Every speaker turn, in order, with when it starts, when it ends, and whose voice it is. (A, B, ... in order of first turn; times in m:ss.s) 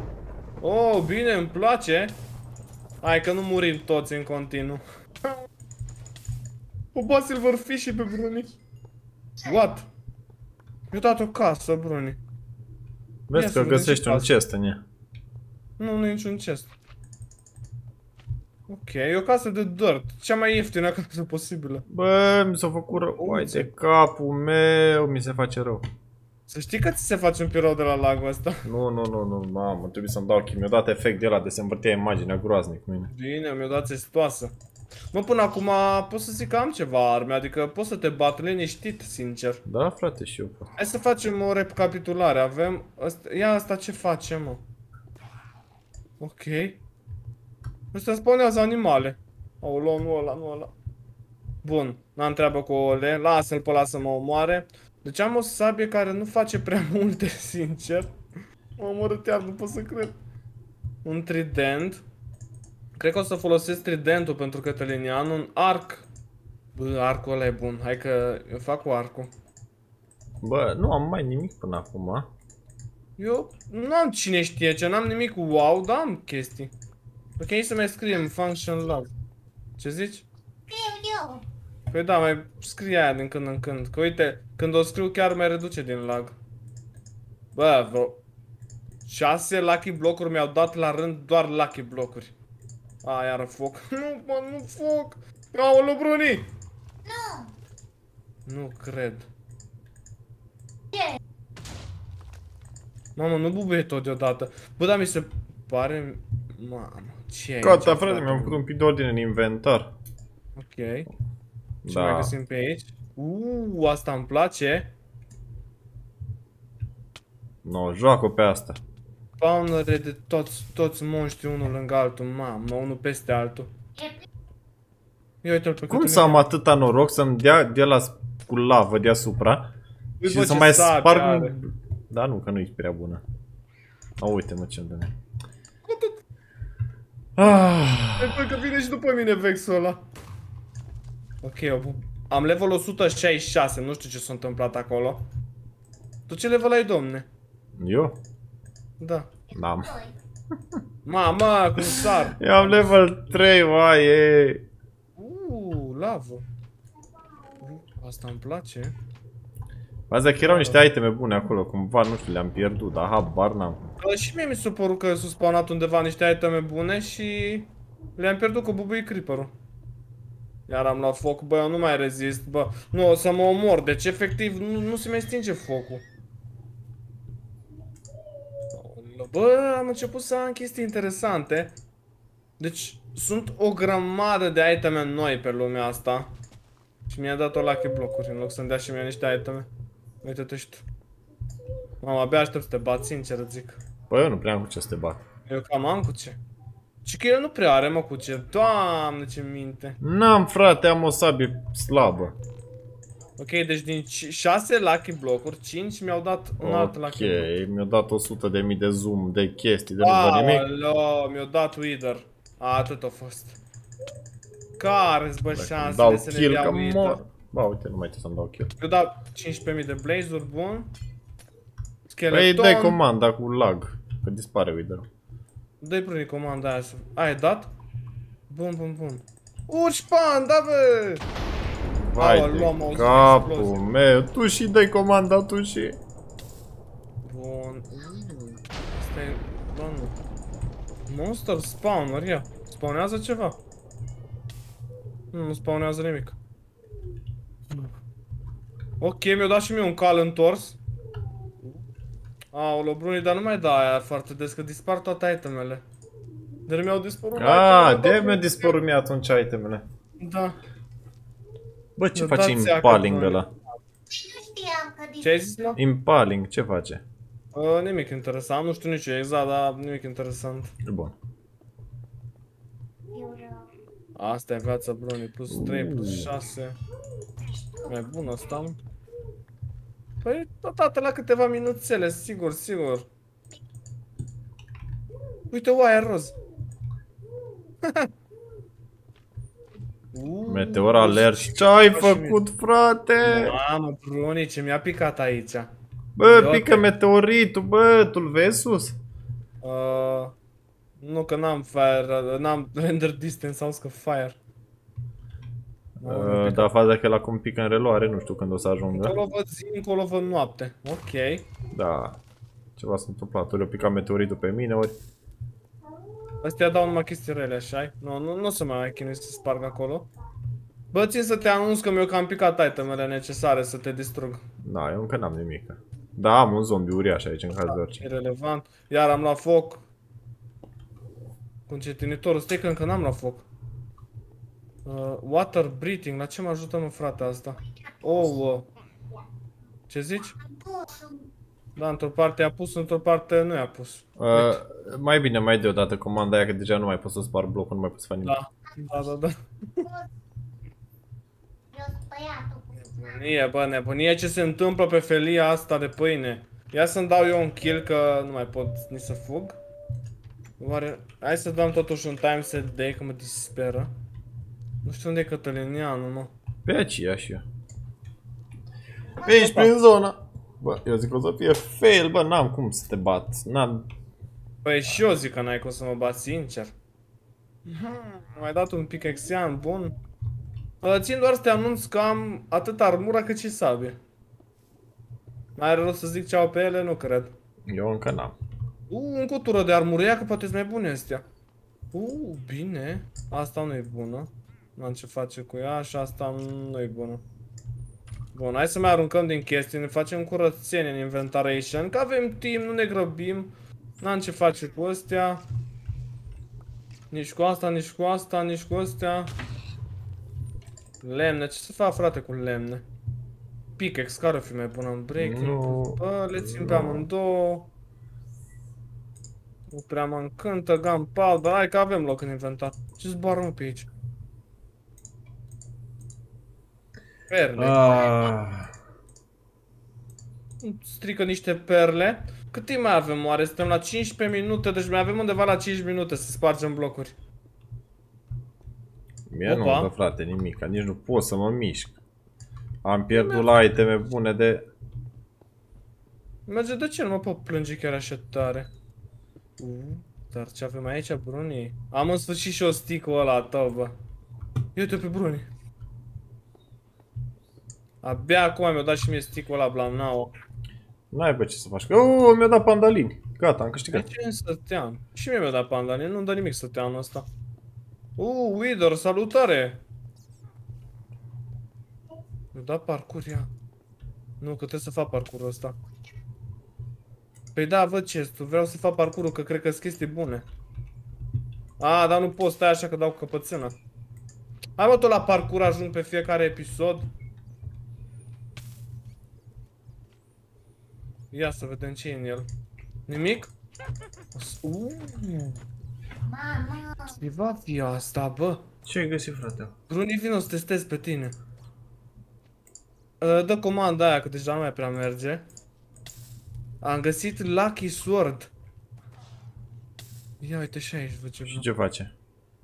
0:00.6-0:02.1 A
0:03.0-0:04.8 A
0:06.9-0:08.6 A
0:09.4-0:09.9 A
0:10.9-0:12.2 A
0:13.3-0:14.8 B
0:13.3-0:14.3 A
0:15.8-0:16.7 A
0:18.7-0:21.8 A
0:21.9-0:25.8 B
0:23.2-0:23.7 A
0:26.5-0:28.7 A
0:28.6-0:33.1 B
0:33.1-0:34.5 A
0:35.1-0:39.6 A
0:39.7-0:40.7 B
0:40.8-0:44.6 A
0:46.2-0:46.8 A
0:47.9-0:50.7 A
0:51.6-0:58.2 A
0:58.8-1:00.2 A
1:01.0-1:02.0 A
1:03.0-1:06.1 A
1:06.8-1:09.3 A
1:10.4-1:12.3 B
1:13.2-1:16.7 A
1:17.4-1:19.1 A
1:19.8-1:20.3 A
1:20.7-1:21.4 C
1:21.9-1:26.4 A
1:27.6-1:28.2 A
1:29.0-1:32.3 A
1:33.0-1:36.5 A
1:37.0-1:37.5 C
1:38.5-1:39.3 A
1:40.9-1:41.2 C
1:43.2-1:48.6 A
1:47.6-1:49.9 B
1:50.6-1:51.1 A
1:51.8-1:52.3 B
1:51.9-1:54.9 A
1:57.6-1:58.8 B
1:59.4-2:03.7 A
2:04.0-2:04.3 C
2:05.4-2:06.4 A
2:05.9-2:09.7 B
2:10.2-2:11.6 A
2:10.2-2:13.2 B
2:14.2-2:15.1 B
2:17.4-2:18.4 B
2:18.2-2:20.0 A
2:21.4-2:25.3 A
2:26.3-2:27.3 A
2:27.8-2:28.2 B
2:29.0-2:29.3 A
2:29.5-2:29.9 B
2:29.5-2:30.2 C
2:31.0-2:33.0 A
2:32.4-2:34.7 B
2:35.2-2:36.4 A
2:37.6-2:39.0 A
2:40.1-2:43.9 B
2:40.4-2:40.8 A
2:44.0-2:49.5 A
2:50.7-2:56.0 A
2:58.7-3:01.8 A
3:02.6-3:06.3 A
3:07.1-3:09.7 A
3:10.2-3:10.8 A
3:12.0-3:13.8 A
3:14.1-3:15.2 B
3:15.5-3:16.4 A
3:17.0-3:20.0 A
3:20.0-3:22.4 B
3:23.4-3:27.5 A
3:26.6-3:30.7 B
3:30.0-3:33.6 A
3:34.8-3:37.2 A
3:35.5-3:38.7 B
3:38.8-3:40.9 A
3:42.1-3:43.0 A
3:42.3-3:45.1 B
3:45.8-3:47.7 A
3:48.5-3:51.2 A
3:52.0-3:56.0 B
3:52.2-3:53.8 A
3:57.2-4:00.2 A
4:01.1-4:03.6 A
4:05.3-4:06.4 A
4:09.0-4:10.8 A
4:12.5-4:15.8 A
4:16.7-4:18.8 A
4:17.4-4:19.8 B
4:20.2-4:20.6 A
4:22.0-4:23.5 B
4:22.2-4:23.6 A
4:24.1-4:25.7 C
4:25.2-4:25.8 A
4:25.8-4:27.0 B
4:27.5-4:30.8 A
4:30.8-4:31.2 B
4:33.1-4:33.7 C
4:34.2-4:36.8 A
4:35.5-4:36.3 B
4:37.9-4:38.8 A
4:40.2-4:43.1 A
4:45.5-4:46.4 A
4:47.8-4:48.1 A
4:50.1-4:52.4 A
4:50.5-4:53.6 B
4:53.2-4:55.7 A
4:56.2-4:59.0 B
4:56.2-4:56.9 A
4:59.6-5:00.4 A
5:01.0-5:04.4 A
5:06.0-5:09.2 B
5:06.0-5:06.7 A
5:08.9-5:11.5 A
5:11.7-5:12.2 B
5:12.8-5:15.0 B
5:16.4-5:20.1 A
5:20.9-5:24.4 A
5:24.6-5:28.0 B
5:27.7-5:29.8 A
5:31.7-5:33.4 A
5:34.8-5:38.7 A
5:37.9-5:38.2 C
5:39.9-5:40.4 A
5:40.5-5:41.2 C
5:41.8-5:44.6 A
5:44.2-5:48.4 B
5:48.2-5:49.9 A
5:49.8-5:50.1 C
5:51.7-5:53.2 C
5:52.9-5:59.6 A
6:00.6-6:03.9 A
6:04.8-6:06.3 A
6:06.7-6:07.4 B
6:09.2-6:13.9 B
6:09.2-6:09.7 A
6:14.6-6:16.7 A
6:17.6-6:20.0 A
6:20.8-6:24.0 A
6:25.6-6:27.3 A
6:27.7-6:28.4 B
6:28.9-6:31.2 A
6:31.9-6:37.2 A
6:38.3-6:45.4 A
6:47.1-6:49.3 A
6:51.0-6:52.8 A
6:53.8-6:57.7 A
6:55.2-6:57.1 B
6:59.7-7:03.9 A
7:07.3-7:08.1 A
7:07.6-7:08.7 B
7:10.6-7:17.1 A
7:19.3-7:22.0 B
7:19.5-7:19.9 A
7:22.8-7:24.7 B
7:23.1-7:23.5 A
7:26.5-7:28.7 A
7:29.6-7:33.9 A
7:34.8-7:35.5 A
7:38.0-7:40.3 A
7:41.1-7:44.1 B
7:43.9-7:47.3 A
7:48.2-7:49.8 A
7:52.5-7:53.5 A
7:54.4-7:55.8 A
7:57.6-8:00.5 A
8:01.8-8:03.8 A
8:04.8-8:07.1 A
8:11.3-8:12.5 A
8:13.1-8:13.5 A
8:14.3-8:15.6 A
8:16.3-8:17.2 C
8:17.2-8:18.6 A
8:18.8-8:19.7 B
8:19.9-8:21.4 A
8:23.2-8:25.4 A
8:26.8-8:28.5 A
8:30.4-8:31.7 A
8:31.5-8:32.1 B